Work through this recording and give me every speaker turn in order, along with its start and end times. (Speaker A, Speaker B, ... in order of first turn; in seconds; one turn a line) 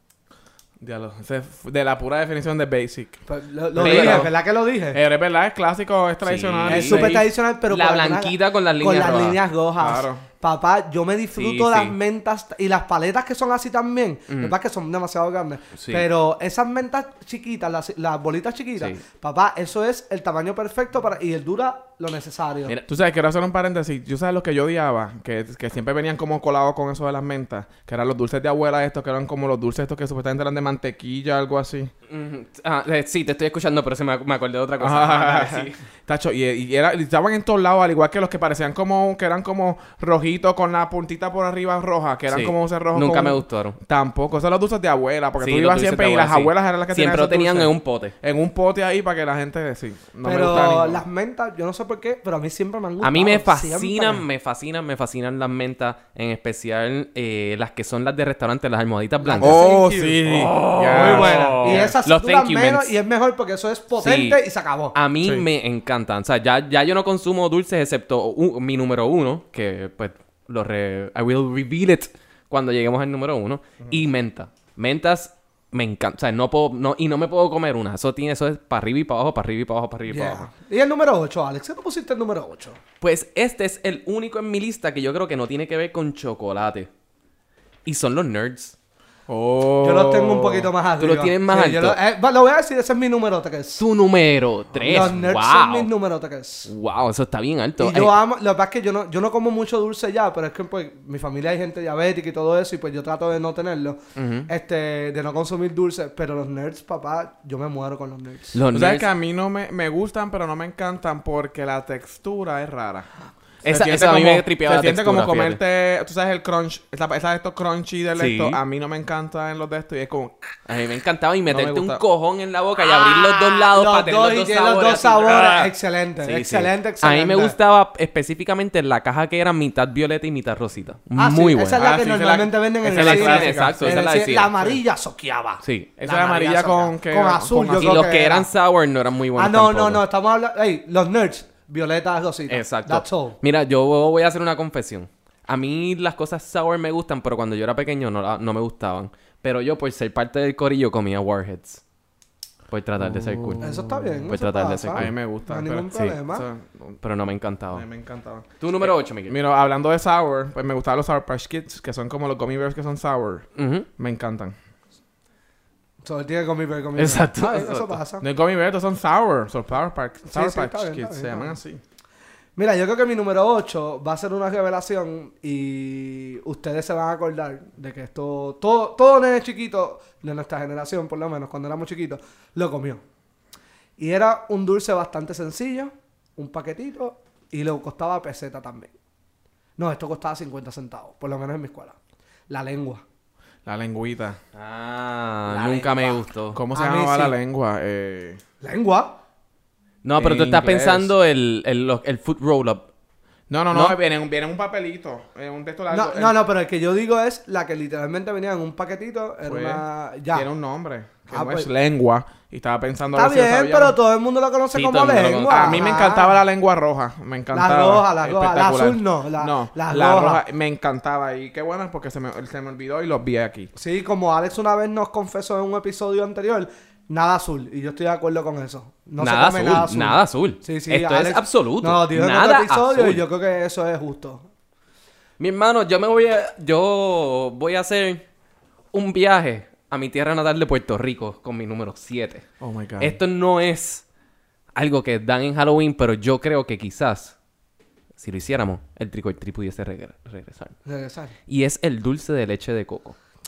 Speaker A: 0.8-4.4
Speaker B: 3.3-5.0
Speaker C: 3.8-4.3
Speaker A: 4.9-7.2
Speaker C: 6.2-9.4
Speaker B: 6.7-22.8
Speaker A: 9.8-10.2
Speaker C: 11.3-11.9
Speaker C: 14.3-14.5
Speaker C: 15.7-16.1
Speaker C: 18.8-19.0
Speaker A: 22.9-31.9
Speaker C: 32.1-35.8
Speaker A: 34.8-51.0
Speaker C: 42.3-43.8
Speaker C: 45.4-48.1
Speaker B: 50.2-54.2
Speaker C: 53.0-59.7
Speaker B: 59.2-65.0
Speaker A: 59.4-62.0
Speaker C: 60.3-63.0
Speaker C: 64.0-64.4
Speaker C: 64.9-80.5
Speaker B: 80.1-82.8
Speaker C: 83.0-86.9
Speaker C: 87.8-88.8
Speaker A: 89.3-90.7
Speaker B: 89.8-93.8
Speaker C: 91.0-92.0
Speaker C: 93.8-95.9
Speaker A: 94.8-95.2
Speaker B: 94.8-96.7
Speaker C: 96.7-98.2
Speaker B: 97.8-108.6
Speaker C: 104.2-104.5
Speaker C: 108.5-109.1
Speaker A: 108.7-113.1
Speaker C: 113.7-115.6
Speaker A: 113.7-120.3
Speaker C: 118.2-118.6
Speaker C: 120.7-125.7
Speaker A: 121.5-122.0
Speaker B: 122.8-127.6
Speaker C: 126.2-131.8
Speaker B: 131.2-138.5
Speaker A: 131.8-134.0
Speaker C: 132.9-134.8
Speaker C: 135.6-135.9
Speaker A: 136.0-138.1
Speaker C: 137.8-140.0
Speaker B: 139.4-143.4
Speaker C: 142.5-151.8
Speaker C: 152.7-155.1
Speaker A: 153.0-154.3
Speaker B: 153.6-156.5
Speaker A: 154.9-157.0
Speaker C: 157.0-157.8
Speaker A: 157.7-164.6
Speaker C: 158.6-159.4
Speaker C: 163.6-163.9
Speaker B: 166.0-168.3
Speaker C: 167.0-168.0
Speaker A: 168.2-171.8
Speaker B: 170.3-171.6
Speaker B: 172.6-183.0
Speaker B: 184.0-188.9
Speaker B: 189.8-192.0
Speaker B: 192.5-193.0
Speaker A: 193.7-194.4
Speaker C: 194.5-196.6
Speaker B: 195.5-197.4
Speaker A: 196.6-198.4
Speaker B: 198.6-199.2
Speaker C: 200.0-202.9
Speaker A: 200.2-201.1
Speaker A: 203.5-206.4
Speaker C: 203.7-204.0
Speaker B: 205.9-210.5
Speaker A: 209.4-214.0
Speaker B: 211.3-211.7
Speaker B: 213.1-216.4
Speaker C: 214.7-215.9
Speaker A: 215.5-223.7
Speaker B: 217.5-220.4
Speaker B: 223.8-234.5
Speaker C: 229.2-233.3
Speaker C: 235.4-238.2
Speaker C: 238.9-242.5
Speaker A: 242.6-243.2
Speaker C: 243.0-244.1
Speaker C: 244.8-247.4
Speaker C: 248.2-250.8
Speaker B: 250.9-251.3
Speaker C: 251.5-253.2